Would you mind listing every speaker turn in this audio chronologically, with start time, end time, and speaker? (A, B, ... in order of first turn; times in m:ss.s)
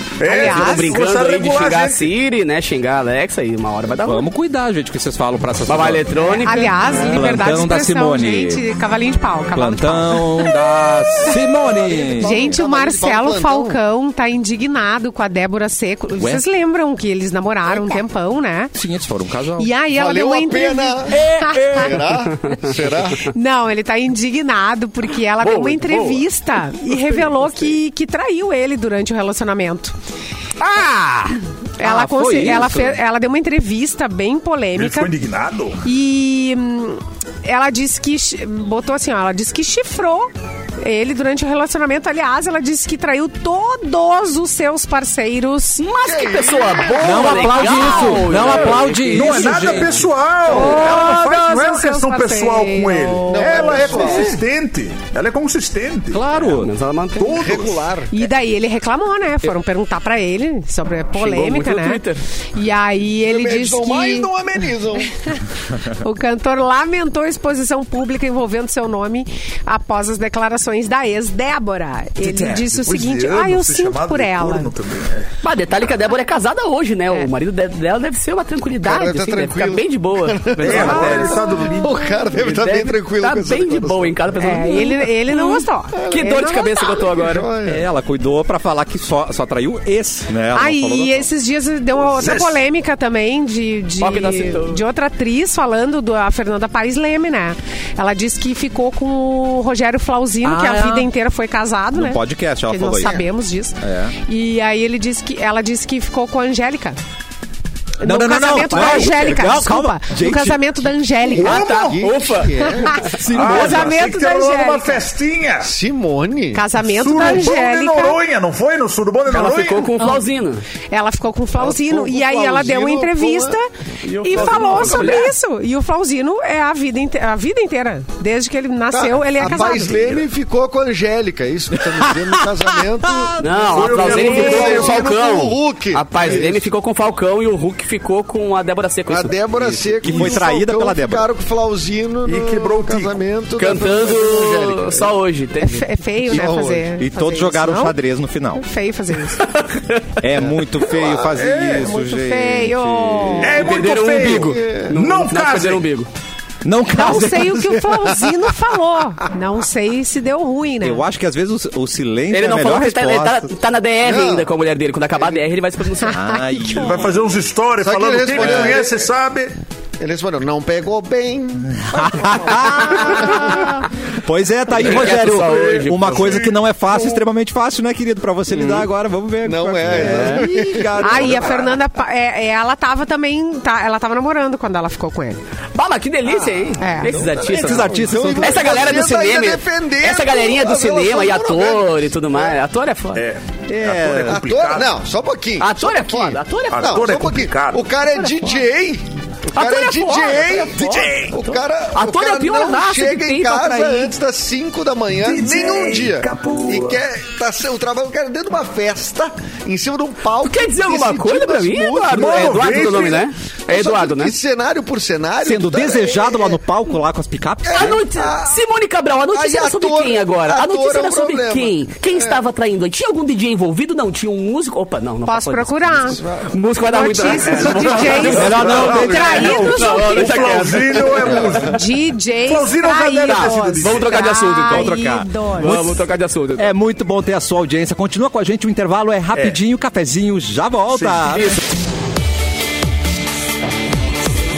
0:00.2-0:02.1 A
0:00.2-0:01.0 B
0:00.4-0:04.3 C
0:04.0-0:06.1 D
0:05.7-0:06.8 C
0:06.4-0:10.5 B
0:06.9-0:08.6 D
0:09.5-0:12.5 D
0:11.4-0:13.8 E
0:12.2-0:18.7 B
0:16.2-0:16.4 D
0:18.7-0:19.7 D
0:19.6-0:21.9 B
0:19.9-0:23.3 E
0:21.1-0:22.6 C
0:23.2-0:29.9 B
0:25.4-0:26.3 C
0:26.9-0:27.2 C
0:30.6-0:31.4 C
0:31.8-0:35.1 B
0:31.8-0:33.0 D
0:34.8-0:35.8 A
0:35.8-0:45.8 B
0:45.8-0:50.0 C
0:46.0-0:48.2 E
0:47.0-0:50.0 D
0:49.1-0:56.2 A
0:50.5-0:54.3 B
0:53.3-0:54.4 E
0:54.0-0:54.4 C
0:56.1-0:56.7 D
0:56.5-0:57.4 C
0:57.2-0:57.9 A
0:57.2-0:58.2 E
0:58.1-1:02.0 B
1:01.2-1:02.2 C
1:02.6-1:04.3 B
1:03.2-1:05.1 E
1:05.0-1:05.4 B
1:05.9-1:14.7 B
1:12.2-1:15.3 A
1:15.4-1:21.4 C
1:18.8-1:24.2 E
1:20.6-1:22.3 A
1:20.7-1:21.1 D
1:22.3-1:27.5 C
1:24.4-1:27.0 B
1:25.9-1:26.4 E
1:27.0-1:27.9 E
1:27.6-1:31.3 D
1:30.5-1:47.0 B
1:32.1-1:32.6 A
1:34.0-1:34.8 C
1:40.4-1:41.1 D
1:41.9-1:43.2 D
1:43.8-1:44.2 D
1:48.0-1:51.7 B
1:48.0-1:50.9 D
1:48.6-1:49.2 C
1:51.4-1:52.0 A
1:51.4-1:53.9 C
1:51.5-1:53.1 E
1:52.6-1:55.0 B
1:53.3-1:55.7 A
1:53.3-1:53.6 D
1:55.6-1:56.7 E
1:56.5-1:58.2 B
1:56.8-2:00.0 A
1:59.3-2:00.6 C
2:00.9-2:03.7 B
2:01.6-2:03.6 E
2:04.0-2:05.3 C
2:04.2-2:10.2 B
2:04.3-2:05.2 E
2:08.9-2:16.7 E
2:11.8-2:13.9 D
2:13.4-2:20.4 C
2:13.7-2:15.0 A
2:14.2-2:14.7 B
2:19.1-2:25.1 E
2:20.0-2:21.3 D
2:22.2-2:23.2 A
2:23.6-2:25.9 C
2:25.6-2:28.0 B
2:26.2-2:26.9 E
2:27.0-2:28.6 D
2:28.6-2:29.5 B
2:29.7-2:30.0 C
2:30.2-2:33.6 D
2:30.4-2:31.9 E
2:31.8-2:33.6 B
2:33.4-2:35.8 A
2:33.6-2:36.1 C
2:34.2-2:35.0 E
2:36.6-2:37.9 D
2:36.9-2:41.0 B
2:40.8-2:43.5 D
2:42.3-2:46.2 C
2:44.0-2:44.5 E
2:45.2-2:45.4 E
2:46.1-2:46.9 B
2:46.1-2:47.2 D
2:46.7-2:49.6 A
2:47.8-2:49.1 E
2:50.0-2:53.7 E
2:51.8-3:01.7 D
2:54.8-2:56.4 C
2:56.0-2:56.5 A
2:59.4-3:01.7 E
2:59.9-3:00.5 C
3:01.0-3:05.4 B
3:05.8-3:13.2 C
3:06.8-3:07.2 B
3:07.0-3:12.6 E
3:07.1-3:09.1 D
3:13.2-3:14.9 A
3:13.7-3:14.4 D
3:14.2-3:36.6 E
3:15.6-3:17.1 C
3:16.7-3:17.9 A
3:18.2-3:18.6 C
3:19.5-3:24.2 C
3:20.8-3:21.4 A
3:25.2-3:27.0 A
3:30.4-3:34.4 C
3:32.1-3:33.3 A
3:35.4-3:38.0 D
3:37.6-3:38.6 E
3:37.7-3:51.5 C
3:39.3-3:42.4 E
3:45.3-3:46.2 B
3:45.9-3:46.6 E
3:46.9-3:55.9 B
3:47.2-3:47.8 E
3:48.2-3:49.8 D
3:48.4-3:51.8 A
3:48.6-3:49.0 E
3:51.1-3:51.6 E
3:52.4-3:54.2 A
3:53.2-3:55.0 C
3:54.7-3:55.9 D
3:55.6-3:56.7 C
3:56.6-4:01.6 D
4:01.0-4:01.6 C